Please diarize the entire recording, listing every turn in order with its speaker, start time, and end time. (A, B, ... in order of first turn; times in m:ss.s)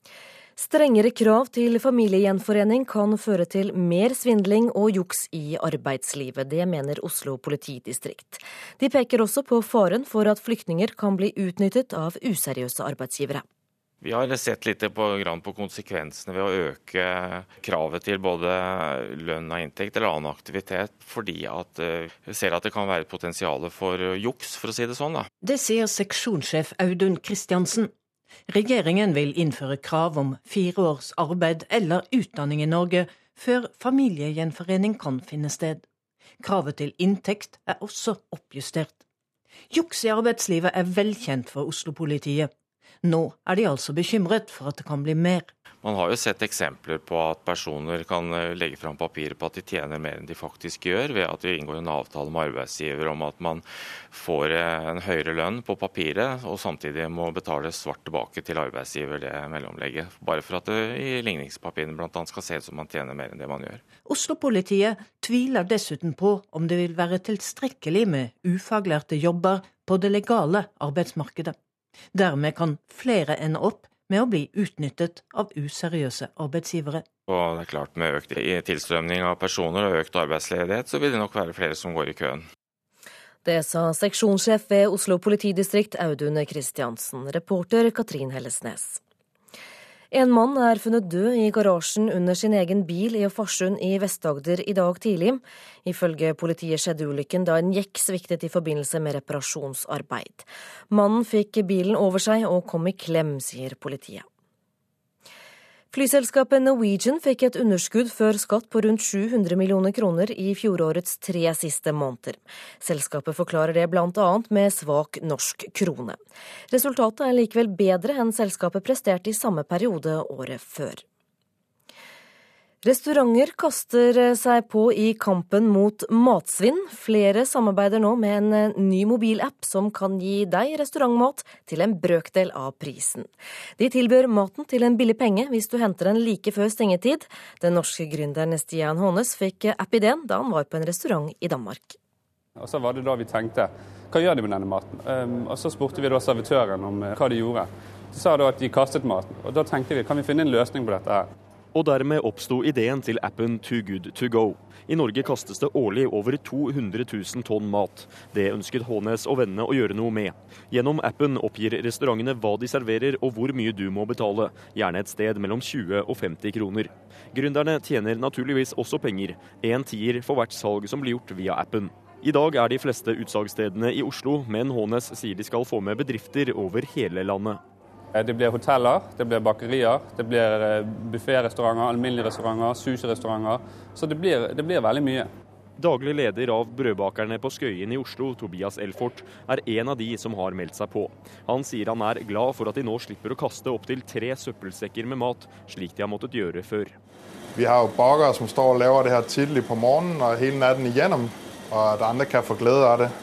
0:00.6-0:13.4 A
0:14.0-0:25.3 B
0:25.4-0:27.9 C
0:28.5-0:35.8 C
0:36.4-0:39.0 C
0:39.7-0:42.5 C
0:43.0-0:45.5 C
0:45.8-1:03.8 B
1:04.1-1:11.6 C
1:12.1-1:17.0 C
1:17.3-1:22.4 B
1:23.4-1:29.0 A
1:30.1-1:44.3 A
1:45.9-1:56.2 A
1:56.7-2:01.0 A
2:02.8-2:22.0 A
2:22.6-2:31.3 D
2:31.7-2:57.6 E
2:58.2-3:05.3 D
3:05.8-3:17.0 E
3:17.7-3:21.3 F
3:21.8-3:23.0 F